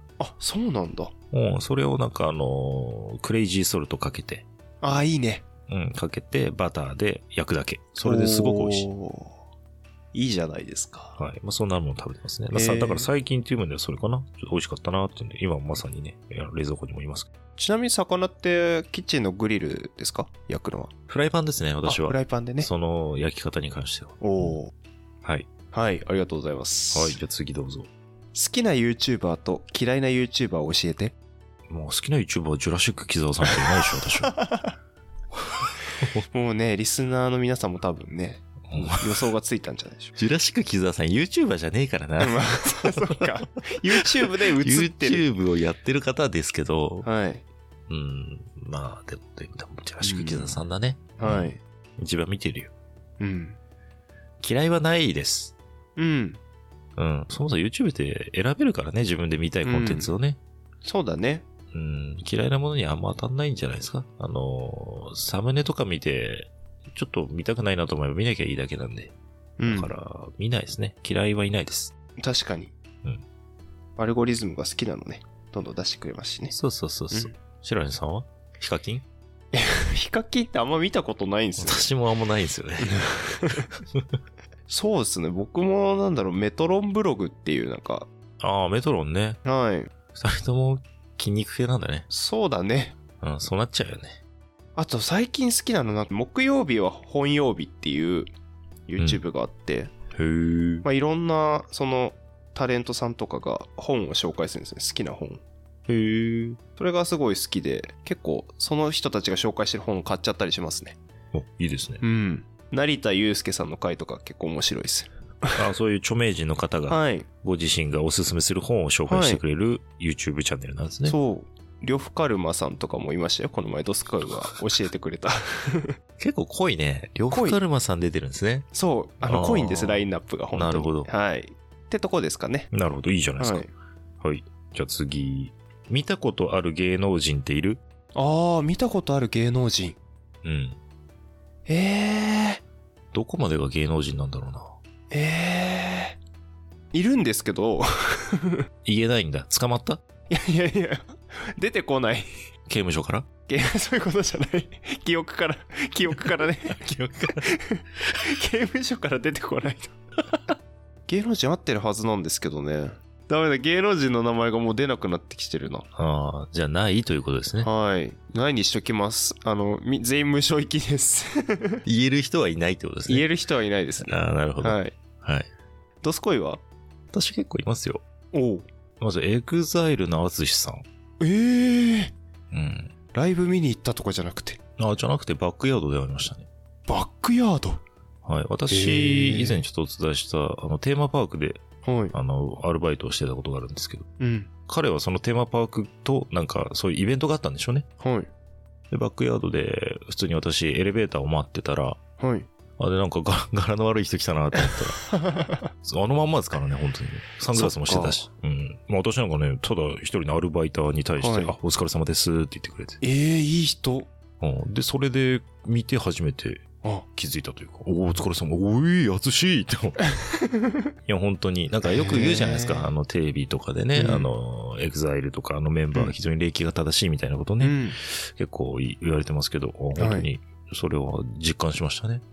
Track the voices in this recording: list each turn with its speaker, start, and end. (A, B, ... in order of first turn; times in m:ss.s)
0:00.2-0:01.1 A
0:01.3-0:04.5 B
0:04.8-0:05.5 A
0:05.7-0:08.9 B
0:08.0-0:09.4 A
0:10.1-0:11.2 A
0:11.2-0:17.3 B
0:12.5-0:13.1 A
0:17.6-0:20.9 A
0:21.1-0:24.6 B
0:21.8-0:22.7 A
0:24.2-0:24.7 A
0:25.7-0:27.2 A
0:26.9-0:27.9 B
0:28.3-0:31.1 A
0:31.7-0:34.3 B
0:33.4-0:34.7 A
0:35.5-0:36.2 B
0:36.3-0:40.1 A
0:38.7-0:39.2 B
0:40.2-0:43.2 B
0:42.2-0:45.2 A
0:44.6-0:47.1 B
0:47.0-0:47.4 A
0:47.9-0:52.7 B
0:50.0-0:50.6 A
0:51.2-0:51.6 A
0:53.2-0:53.6 A
0:54.4-0:55.6 B
0:56.0-0:56.4 A
0:57.0-1:00.4 B
0:59.6-1:00.1 A
1:00.8-1:01.5 A
1:01.7-1:09.1 B
1:09.6-1:09.9 A
1:09.7-1:11.9 B
1:12.2-1:12.7 A
1:14.0-1:16.6 A
1:16.5-1:19.1 B
1:19.5-1:21.9 A
1:21.6-1:23.0 B
1:22.8-1:23.7 A
1:24.7-1:28.1 A
1:28.4-1:29.4 B
1:29.4-1:29.9 A
1:30.2-1:32.1 B
1:32.1-1:33.0 A
1:33.2-1:34.2 B
1:34.8-1:38.3 A
1:38.9-1:39.9 A
1:40.1-1:40.8 B
1:40.8-1:45.4 A
1:45.9-1:46.6 B
1:46.8-1:51.0 A
1:51.3-1:52.0 B
1:52.0-1:55.6 A
1:55.6-2:01.2 B
1:56.9-1:57.3 A
1:59.1-1:59.4 A
2:01.0-2:06.0 A
2:06.2-2:08.7 B
2:07.3-2:07.6 A
2:08.7-2:12.7 A
2:09.2-2:11.1 B
2:12.7-2:13.7 B
2:13.4-2:13.7 A
2:14.2-2:17.8 B
2:18.2-2:20.0 A
2:20.4-2:20.8 B
2:21.7-2:22.6 A
2:23.1-2:24.7 B
2:25.1-2:26.2 A
2:26.9-2:28.7 A
2:28.8-2:30.0 B
2:30.3-2:32.4 A
2:32.7-2:33.3 B
2:33.5-2:39.9 A
2:36.8-2:37.4 B
2:41.1-2:45.9 A
2:46.0-2:47.7 B
2:47.6-2:51.8 A
2:51.9-2:53.3 B
2:53.1-2:55.0 A
2:54.0-2:55.5 B
2:56.0-2:56.6 A
2:57.1-2:58.0 B
2:58.3-2:58.7 A
2:59.0-3:00.8 B
3:01.2-3:02.2 A
3:02.5-3:02.9 B
3:03.1-3:04.6 A
3:04.8-3:06.5 B
3:06.9-3:07.8 A
3:08.2-3:11.6 B
3:08.7-3:09.6 A
3:11.8-3:12.2 A
3:12.1-3:14.1 B
3:14.2-3:14.5 A
3:14.7-3:17.9 B
3:18.0-3:18.3 A
3:18.9-3:22.0 B
3:22.2-3:22.5 A
3:22.8-3:25.1 B
3:25.1-3:25.6 A
3:25.8-3:33.0 B
3:27.5-3:28.2 A
3:31.2-3:31.6 A
3:33.0-3:34.1 A
3:34.4-3:40.0 B
3:40.2-3:40.7 A
3:41.1-3:52.2 B
3:41.8-3:42.9 A
3:44.0-3:44.3 A
3:47.6-3:48.0 A
3:50.0-3:50.3 A